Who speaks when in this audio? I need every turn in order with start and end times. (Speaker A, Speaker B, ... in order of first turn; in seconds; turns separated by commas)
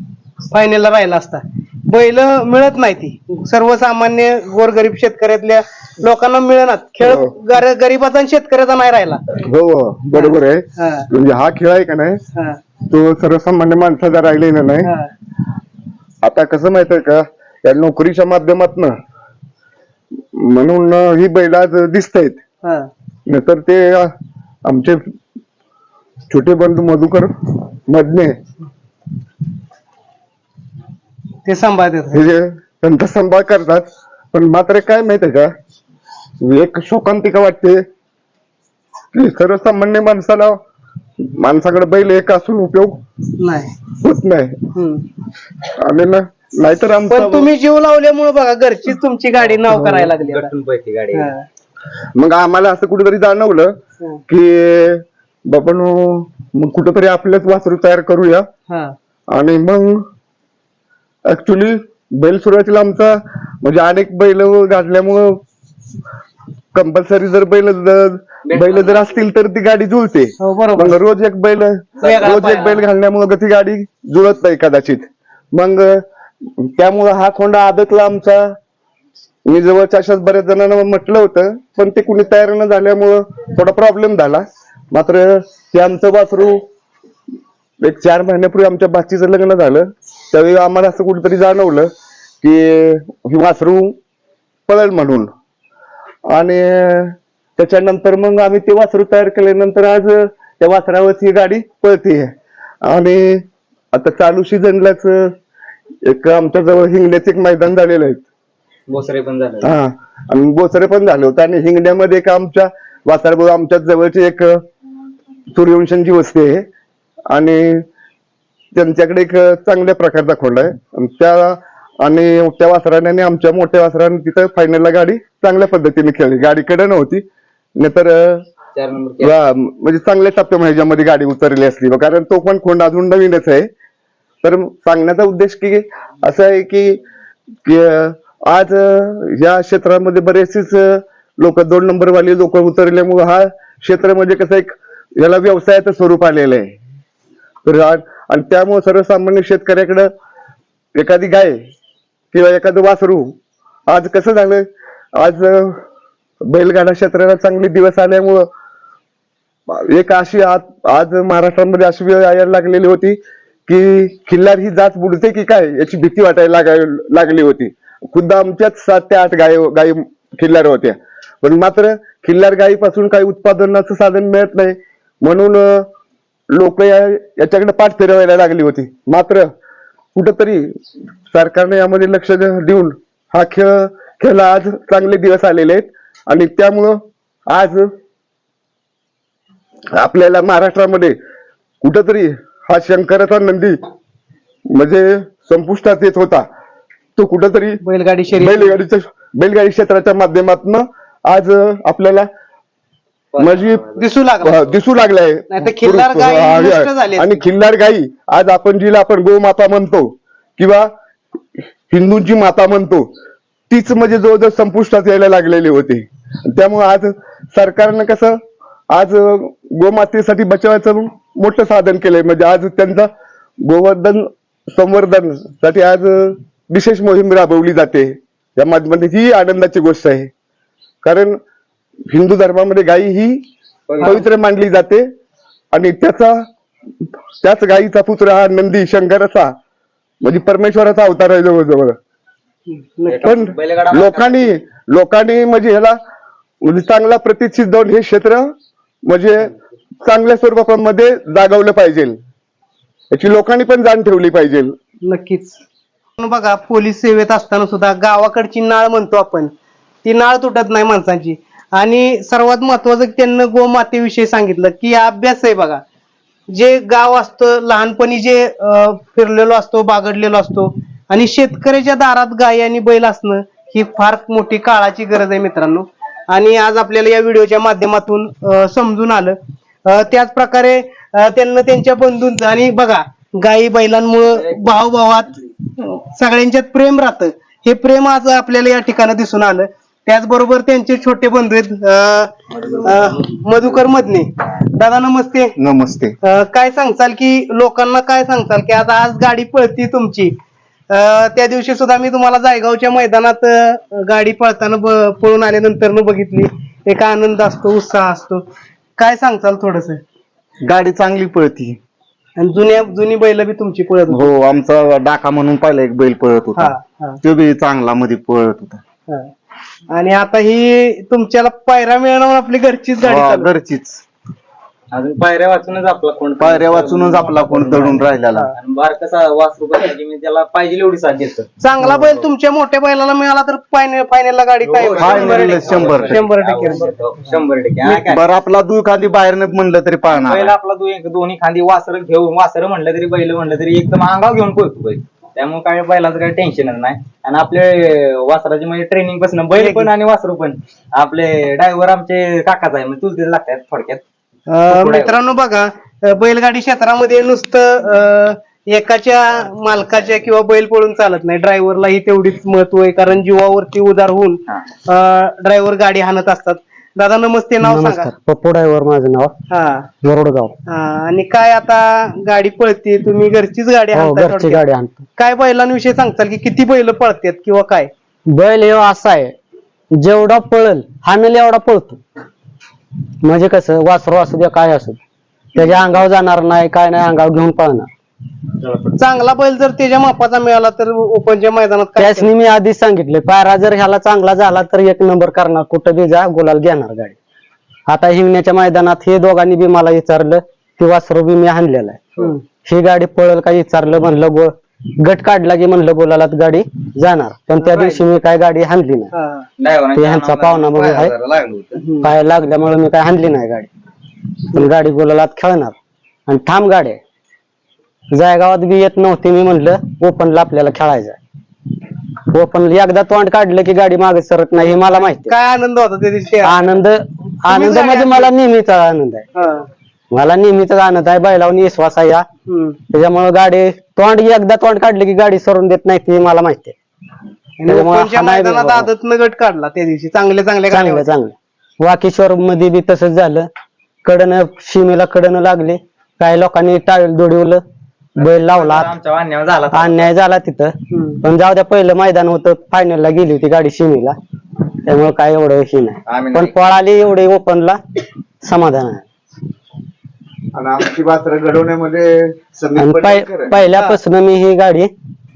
Speaker A: 0.5-9.2, Speaker B: 7.0-7.3, Speaker B: 9.3-12.2, Speaker A: 10.1-11.1, Speaker B: 12.9-14.9, Speaker A: 14.8-15.1, Speaker B: 16.2-19.0, Speaker B: 20.3-22.4, Speaker A: 22.6-22.9, Speaker B: 23.3-24.1, Speaker B: 24.6-25.1, Speaker B: 26.3-27.3, Speaker B: 27.9-28.4, Speaker A: 31.4-32.2, Speaker B: 32.1-35.5, Speaker B: 36.4-37.8, Speaker B: 39.1-40.6, Speaker B: 41.2-43.0, Speaker A: 43.4-43.7, Speaker B: 44.0-44.6, Speaker A: 44.7-45.0, Speaker B: 45.8-47.5, Speaker A: 47.1-50.5, Speaker C: 49.7-51.3, Speaker A: 51.1-51.4, Speaker B: 52.1-53.8, Speaker B: 54.3-58.5, Speaker A: 58.7-58.9, Speaker B: 59.3-60.0, Speaker B: 61.2-65.4, Speaker B: 66.7-76.0, Speaker C: 68.5-69.2, Speaker A: 70.4-71.0, Speaker C: 72.0-72.8, Speaker A: 72.0-72.8, Speaker B: 76.6-78.5, Speaker B: 79.5-86.6, Speaker B: 87.8-91.9, Speaker B: 92.4-94.0, Speaker B: 94.7-95.3, Speaker B: 96.3-105.3, Speaker B: 106.0-108.2, Speaker C: 108.9-109.7, Speaker B: 109.6-114.6, Speaker B: 115.5-116.7, Speaker B: 117.3-117.8, Speaker B: 118.7-127.2, Speaker B: 127.8-128.4, Speaker C: 128.7-129.3, Speaker B: 129.2-133.7, Speaker B: 134.4-137.0, Speaker B: 137.6-146.8, Speaker B: 147.6-150.1, Speaker B: 150.9-151.6, Speaker B: 152.3-153.3, Speaker B: 153.9-155.8, Speaker B: 156.4-158.5, Speaker B: 159.7-175.9, Speaker B: 176.5-179.5, Speaker B: 180.1-180.8, Speaker B: 181.3-187.9, Speaker B: 189.9-191.2, Speaker B: 191.8-193.8, Speaker B: 194.7-196.4, Speaker B: 197.2-197.8, Speaker A: 197.8-198.7, Speaker B: 198.3-202.3, Speaker C: 203.3-204.0, Speaker B: 203.4-203.8, Speaker A: 204.0-204.6, Speaker B: 204.4-210.9, Speaker A: 205.5-207.4, Speaker B: 211.9-213.1, Speaker B: 213.7-218.4, Speaker B: 218.9-223.1, Speaker B: 223.6-230.3, Speaker B: 231.0-231.4, Speaker B: 232.1-233.4, Speaker C: 233.9-234.2, Speaker B: 234.0-235.1, Speaker B: 235.7-236.4, Speaker B: 237.4-239.5, Speaker B: 240.2-242.0, Speaker A: 242.7-243.3, Speaker C: 243.1-244.5, Speaker B: 243.2-246.0, Speaker B: 246.6-248.5, Speaker B: 249.1-252.2, Speaker B: 253.1-254.8, Speaker A: 255.1-255.6, Speaker A: 256.2-259.5, Speaker A: 260.0-265.8, Speaker A: 266.5-295.5, Speaker C: 292.5-293.2, Speaker D: 295.6-296.1, Speaker A: 296.2-300.3, Speaker A: 300.9-308.4, Speaker A: 309.0-310.0, Speaker D: 310.6-311.8, Speaker A: 312.4-314.3, Speaker D: 314.1-318.8, Speaker A: 316.6-317.2, Speaker A: 319.9-323.5, Speaker D: 323.0-324.0, Speaker C: 324.9-331.5, Speaker D: 326.4-328.5, Speaker A: 331.6-337.3, Speaker C: 334.6-338.2, Speaker D: 334.8-336.2, Speaker D: 337.8-340.5, Speaker C: 340.1-354.0, Speaker A: 349.5-349.9, Speaker A: 354.5-368.1, Speaker C: 354.7-355.2, Speaker E: 367.6-369.3, Speaker A: 369.5-369.9, Speaker E: 370.0-370.5, Speaker A: 370.7-374.6, Speaker E: 373.9-375.0, Speaker A: 375.2-377.9, Speaker E: 378.3-379.3, Speaker E: 379.9-382.0, Speaker E: 383.2-385.0, Speaker E: 385.6-387.9, Speaker C: 388.6-389.0, Speaker A: 389.0-392.3, Speaker E: 392.0-397.1, Speaker E: 397.9-409.1, Speaker C: 407.6-408.0, Speaker A: 409.1-409.4, Speaker C: 409.6-410.8, Speaker E: 409.9-411.1, Speaker D: 410.6-411.8, Speaker A: 411.8-412.1, Speaker E: 412.0-413.7, Speaker E: 414.5-415.7, Speaker E: 416.3-417.0, Speaker E: 418.1-421.2, Speaker E: 422.3-425.3, Speaker A: 424.9-426.6, Speaker E: 426.4-429.2, Speaker A: 427.5-428.3, Speaker A: 429.4-429.7, Speaker E: 430.1-432.2, Speaker A: 432.5-432.8, Speaker E: 432.9-436.7, Speaker A: 437.6-441.1, Speaker E: 437.7-438.9, Speaker E: 440.7-443.5, Speaker E: 444.0-447.6, Speaker C: 448.2-450.1, Speaker E: 448.2-448.9, Speaker E: 449.7-454.1, Speaker A: 450.9-451.2, Speaker E: 454.9-457.8, Speaker C: 456.1-456.8, Speaker E: 458.4-459.0, Speaker D: 460.5-463.6, Speaker E: 462.8-464.9